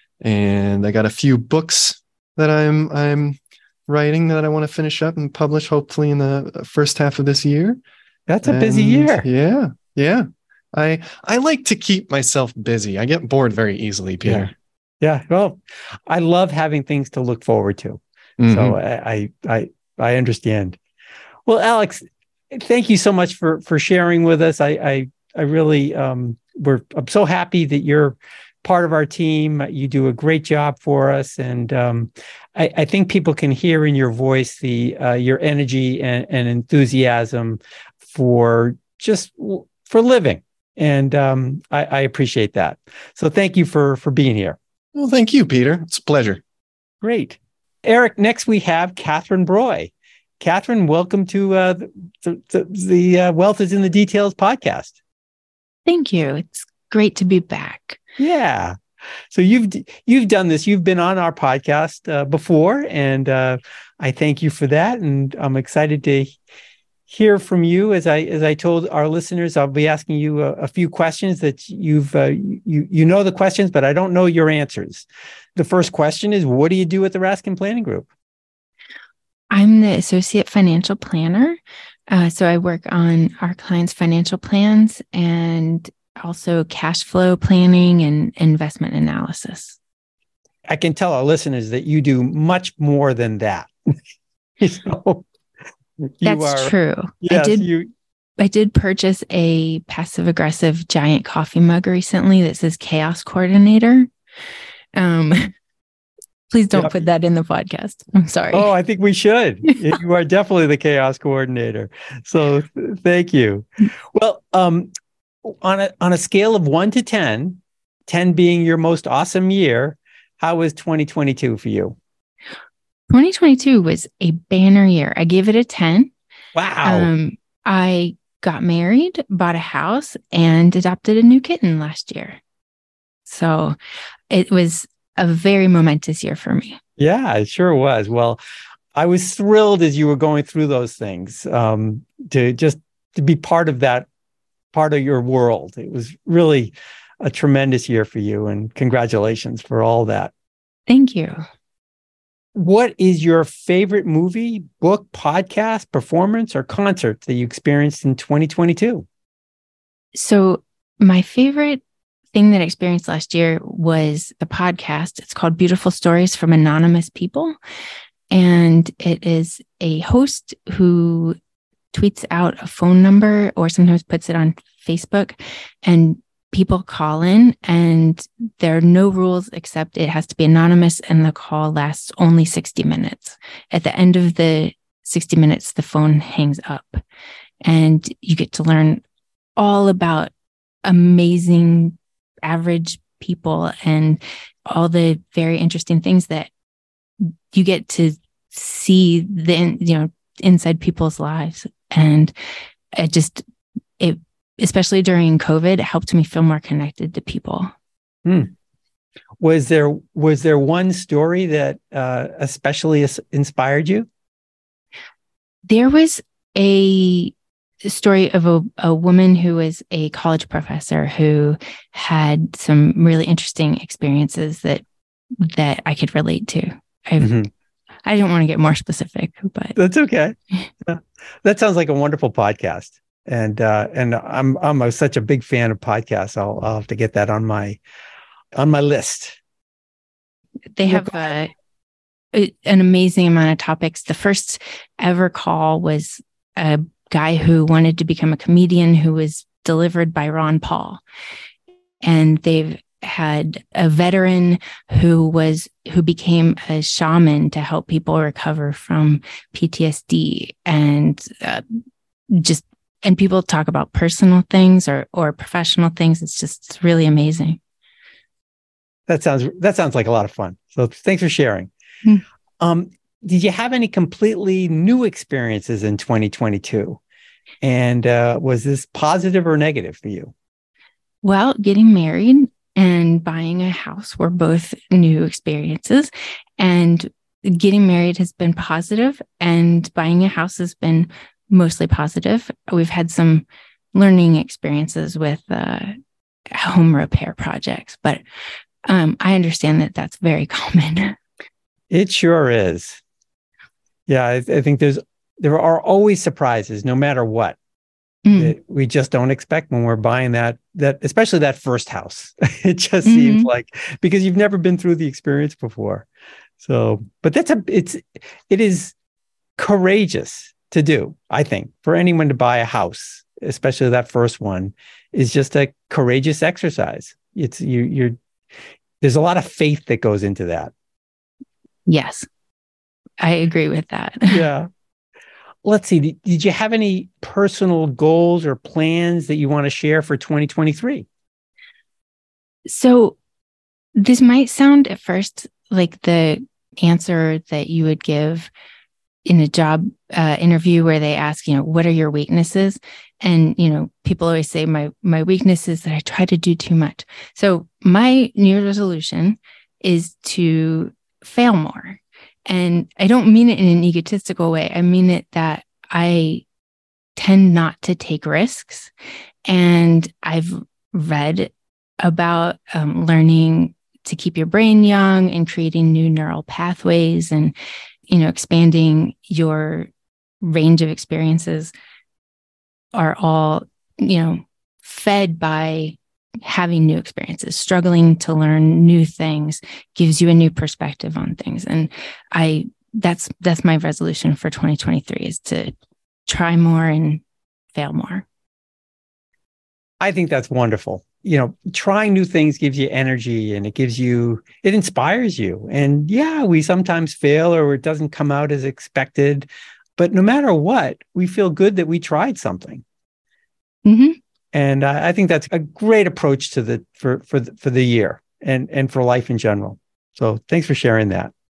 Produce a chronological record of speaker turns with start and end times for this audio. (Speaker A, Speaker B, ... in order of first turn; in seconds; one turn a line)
Speaker A: 0.2-7.8
Speaker B: 8.3-9.2
Speaker A: 8.4-14.5
Speaker B: 15.0-18.0
Speaker A: 18.4-18.8
Speaker B: 18.5-20.8
Speaker B: 21.4-44.6
Speaker A: 44.9-46.4
Speaker B: 47.0-55.0
Speaker C: 55.9-58.0
Speaker B: 58.2-58.8
Speaker B: 59.3-66.3
Speaker B: 67.1-78.1
Speaker C: 79.5-81.6
Speaker C: 82.1-89.8
Speaker B: 90.7-93.7
Speaker B: 94.6-95.2
Speaker B: 96.1-97.9
Speaker C: 96.2-97.7
Speaker C: 98.4-104.1
Speaker C: 104.9-105.5
Speaker C: 106.5-108.7
Speaker B: 108.5-114.9
Speaker B: 115.5-122.0
Speaker C: 123.1-126.1
Speaker B: 126.5-127.1
Speaker C: 126.8-132.4
Speaker C: 133.2-133.8
Speaker C: 134.3-136.8
Speaker B: 137.0-138.4
Speaker B: 138.9-144.1
Speaker B: 144.7-150.3
Speaker C: 150.9-151.4
Speaker B: 152.6-159.0
Speaker C: 160.1-161.8
Speaker C: 162.3-167.6
Speaker C: 168.3-171.4
Speaker C: 171.9-187.0
Speaker C: 187.6-189.0
Speaker C: 189.6-190.3
Speaker C: 190.8-196.5
Speaker C: 197.2-202.3
Speaker C: 202.9-203.4
Speaker C: 204.0-207.7
Speaker B: 208.2-208.5
Speaker B: 209.4-214.1
Speaker C: 215.7-224.8
Speaker C: 225.4-227.3
Speaker B: 227.2-227.5
Speaker C: 228.1-229.8
Speaker B: 229.8-237.8
Speaker B: 238.5-239.4
Speaker C: 240.8-241.5
Speaker B: 240.8-241.2
Speaker C: 242.3-251.0
Speaker C: 252.0-261.6
Speaker C: 262.3-267.6
Speaker B: 269.1-271.7
Speaker B: 272.6-277.0
Speaker B: 277.6-280.3
Speaker C: 281.2-296.0
Speaker C: 296.5-298.2
Speaker C: 298.9-301.2
Speaker B: 301.9-303.0
Speaker B: 304.1-307.6
Speaker C: 308.2-308.5
Speaker B: 308.3-316.1
Speaker C: 313.0-313.5
Speaker B: 316.6-318.9
Speaker B: 319.6-328.2
Speaker B: 329.0-330.7
Speaker C: 331.9-332.2
Speaker C: 333.2-334.4
Speaker B: 334.3-334.7
Speaker B: 335.6-341.1
Speaker C: 342.6-343.2
Speaker C: 344.0-348.5
Speaker C: 349.2-366.4
Speaker C: 367.1-368.9
Speaker C: 369.4-377.5
Speaker C: 378.1-379.9
Speaker C: 380.4-381.7
Speaker C: 382.9-395.7
Speaker C: 396.3-397.2
Speaker C: 397.7-398.2
Speaker B: 400.0-412.8
Speaker C: 413.8-414.2
Speaker B: 414.5-421.3